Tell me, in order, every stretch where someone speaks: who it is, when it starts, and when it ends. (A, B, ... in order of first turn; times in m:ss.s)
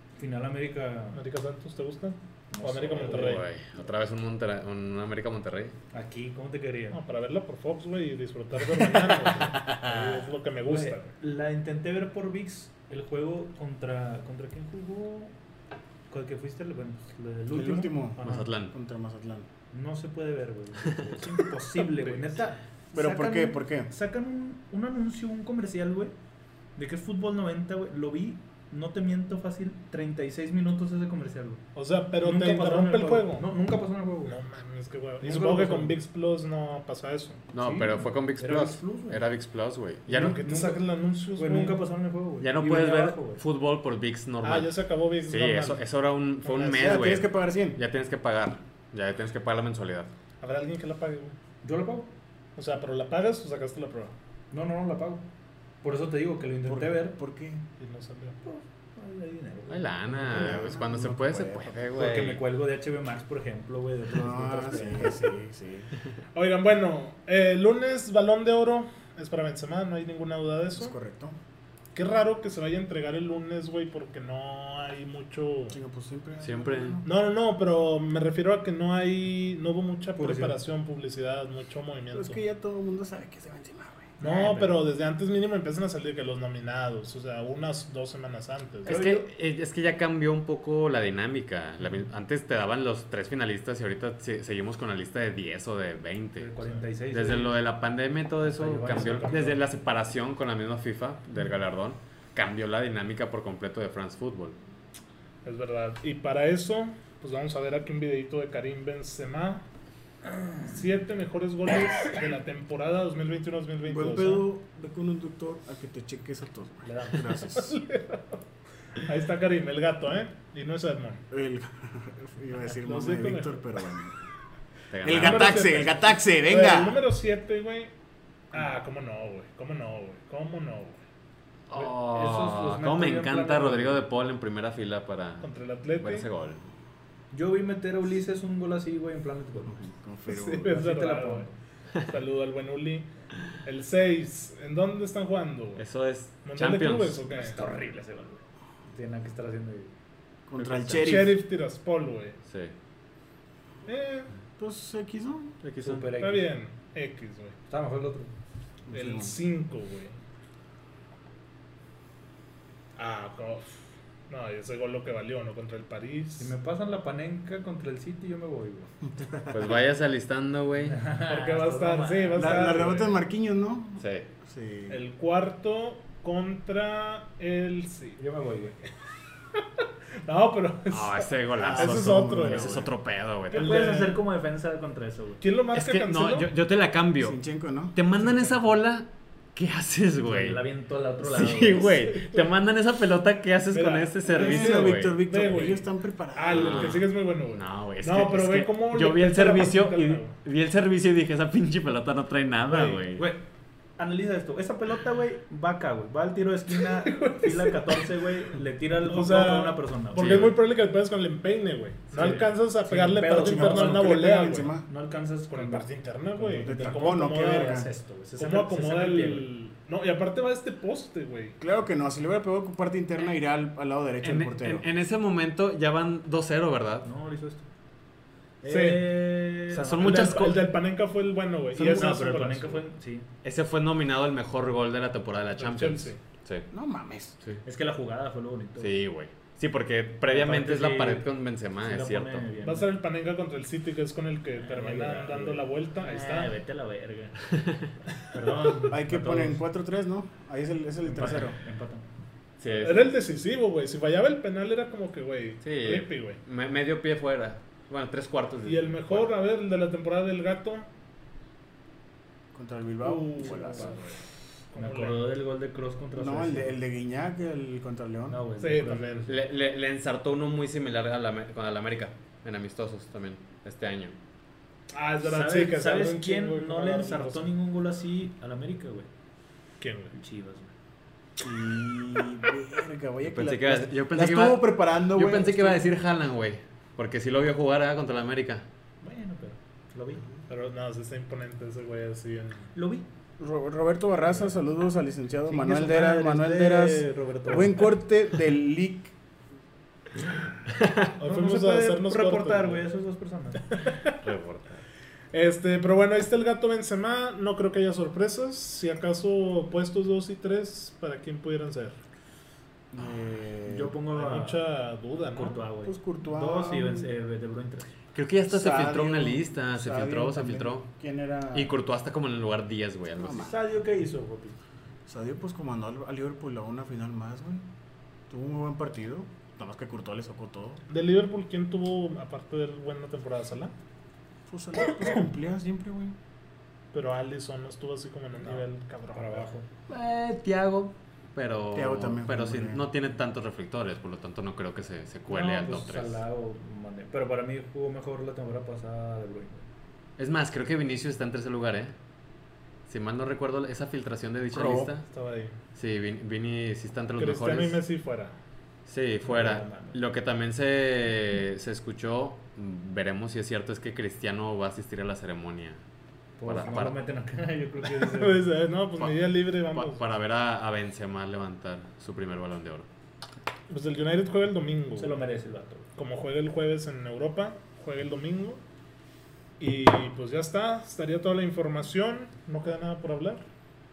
0:00.2-0:01.2 A
0:01.1-0:03.5 B
0:02.5-0:03.4 A
0:02.9-0:05.8 C
0:05.9-0:07.0 A
0:06.9-0:11.1 B
0:10.6-0:15.3 A
0:16.1-0:18.4 A
0:17.5-0:19.5 D
0:18.2-0:18.7 C
0:19.7-0:26.2 A
0:20.8-0:21.4 C
0:22.9-0:23.9 D
0:26.8-0:31.6 A
0:31.8-0:33.5 B
0:32.2-0:34.4 A
0:34.3-0:37.4 B
0:35.2-0:36.0 A
0:37.5-0:40.6 C
0:37.6-0:39.2 A
0:40.1-0:41.8 B
0:40.3-0:40.8 A
0:41.4-0:43.4 A
0:42.4-0:50.1 C
0:44.4-0:45.8 B
0:46.4-0:47.0 B
0:46.6-0:47.8 D
0:50.4-0:51.4 B
0:51.6-0:52.1 A
0:52.6-0:54.1 B
0:54.5-0:55.3 A
0:55.8-0:57.2 A
0:56.6-0:57.6 D
0:57.8-0:58.4 B
0:58.4-1:00.6 A
0:59.7-1:02.4 C
1:00.3-1:01.9 D
1:02.0-1:05.2 A
1:04.1-1:05.9 D
1:06.4-1:11.0 B
1:10.8-1:11.4 D
1:12.0-1:15.8 B
1:15.7-1:17.1 D
1:16.4-1:17.0 C
1:17.0-1:22.4 B
1:20.2-1:20.6 A
1:22.1-1:24.7 D
1:24.2-1:29.0 B
1:28.8-1:36.5 C
1:28.9-1:29.3 A
1:36.4-1:37.6 A
1:37.1-1:44.6 C
1:38.4-1:39.6 A
1:38.9-1:39.2 B
1:45.4-1:49.6 B
1:50.6-1:54.5 B
1:53.8-1:57.7 D
1:56.8-1:58.4 B
1:59.0-2:01.2 B
2:01.3-2:04.2 D
2:02.7-2:03.6 B
2:04.9-2:05.8 C
2:05.0-2:07.0 D
2:05.1-2:07.9 B
2:08.5-2:11.0 B
2:11.7-2:15.5 C
2:11.7-2:14.0 A
2:15.4-2:16.3 B
2:16.0-2:16.6 C
2:17.3-2:19.8 A
2:19.7-2:20.9 D
2:20.3-2:23.1 B
2:20.6-2:21.5 A
2:23.6-2:25.8 B
2:25.8-2:27.2 C
2:26.4-2:27.7 B
2:27.3-2:29.9 A
2:30.5-2:31.4 D
2:30.6-2:31.3 C
2:31.0-2:32.4 B
2:32.5-2:32.7 C
2:33.8-2:34.3 B
2:34.6-2:35.6 D
2:35.6-2:36.1 C
2:35.8-2:36.5 A
2:36.2-2:37.6 B
2:37.7-2:38.3 A
2:38.9-2:39.3 D
2:38.9-2:40.1 B
2:43.0-2:43.8 B
2:44.3-2:46.5 B
2:46.4-2:48.9 A
2:49.1-2:49.6 D
2:49.5-2:51.0 C
2:50.9-2:53.1 A
2:51.3-2:53.2 B
2:52.4-2:55.0 D
2:54.0-2:54.3 C
2:54.9-2:58.2 B
2:58.2-2:58.8 A
3:00.2-3:02.9 B
3:00.9-3:03.8 C
3:01.6-3:02.9 D
3:03.5-3:05.4 A
3:03.5-3:04.2 B
3:05.4-3:06.5 B
3:05.7-3:07.4 C
3:07.2-3:08.0 D
3:07.9-3:10.6 C
3:08.2-3:08.6 B
3:10.2-3:12.1 A
3:11.2-3:15.2 C
3:12.1-3:12.5 B
3:13.7-3:15.8 B
3:14.3-3:17.0 D
3:16.4-3:20.4 B
3:16.5-3:23.3 C
3:22.7-3:23.0 B
3:23.2-3:23.4 A
3:24.0-3:30.5 A
3:26.8-3:28.0 B
3:29.0-3:34.8 B
3:30.2-3:30.5 C
3:32.1-3:34.2 A
3:33.4-3:34.9 D
3:34.9-3:39.5 A
3:35.5-3:37.8 B
3:36.6-3:37.9 D
3:38.4-3:41.6 B
3:41.6-3:44.8 D
3:44.2-3:47.1 C
3:47.0-3:47.7 A
3:48.6-3:50.4 A
3:48.6-3:52.8 B
3:49.7-3:50.7 C
3:51.8-3:53.3 A
3:53.4-3:56.7 C
3:55.6-3:56.2 B
3:56.7-3:57.4 D
3:57.6-3:58.9 A
3:58.8-4:02.5 C
4:00.3-4:01.2 A
4:01.8-4:02.9 A
4:02.6-4:06.5 B
4:04.6-4:07.5 A
4:07.6-4:07.9 C
4:08.3-4:09.6 A
4:08.9-4:11.6 D
4:11.0-4:12.1 A
4:12.6-4:13.1 C
4:12.8-4:16.4 B
4:15.6-4:19.3 C
4:18.7-4:20.9 B
4:22.5-4:24.0 D
4:23.0-4:24.2 B
4:23.5-4:23.9 A
4:24.7-4:25.3 B
4:24.8-4:26.8 A
4:26.2-4:28.4 D
4:28.3-4:29.3 A
4:28.6-4:29.3 B
4:29.3-4:34.2 C
4:34.9-4:37.5 B
4:35.2-4:39.1 A
4:39.8-4:40.1 B
4:40.1-4:40.7 A
4:41.4-4:45.8 D
4:43.2-4:48.7 C
4:49.0-4:50.3 A
4:50.5-4:52.7 B
4:52.8-4:53.1 A
4:53.4-4:59.1 D
4:55.5-4:58.0 A
5:00.7-5:01.1 C
5:01.2-5:02.8 B
5:01.2-5:03.6 A
5:03.7-5:04.2 B
5:04.2-5:04.8 C
5:05.3-5:12.0 B
5:12.9-5:14.0 D
5:13.7-5:14.7 A
5:14.1-5:15.6 B
5:15.2-5:17.9 A
5:15.8-5:17.1 D
5:18.1-5:20.9 C
5:18.5-5:21.7 D
5:21.5-5:23.5 C
5:23.2-5:23.6 D
5:23.4-5:24.6 A
5:25.1-5:27.7 D
5:28.3-5:30.8 D
5:30.9-5:33.7 B
5:34.5-5:36.2 D
5:36.9-5:39.5 B
5:39.1-5:39.7 A
5:39.9-5:46.2 C
5:41.7-5:42.8 D
5:45.3-5:49.6 A
5:50.2-5:52.0 C
5:52.9-5:55.0 C
5:54.5-5:54.9 D
5:55.1-5:55.6 B
5:55.8-5:57.8 C
5:57.2-5:58.4 B
5:58.9-6:05.8 C
5:59.2-6:00.0 A
6:06.4-6:08.5 A
6:06.4-6:07.0 C
6:08.0-6:10.1 B
6:09.0-6:12.9 C
6:13.7-6:15.2 B
6:15.0-6:15.9 A
6:16.0-6:18.6 B
6:19.6-6:23.4 B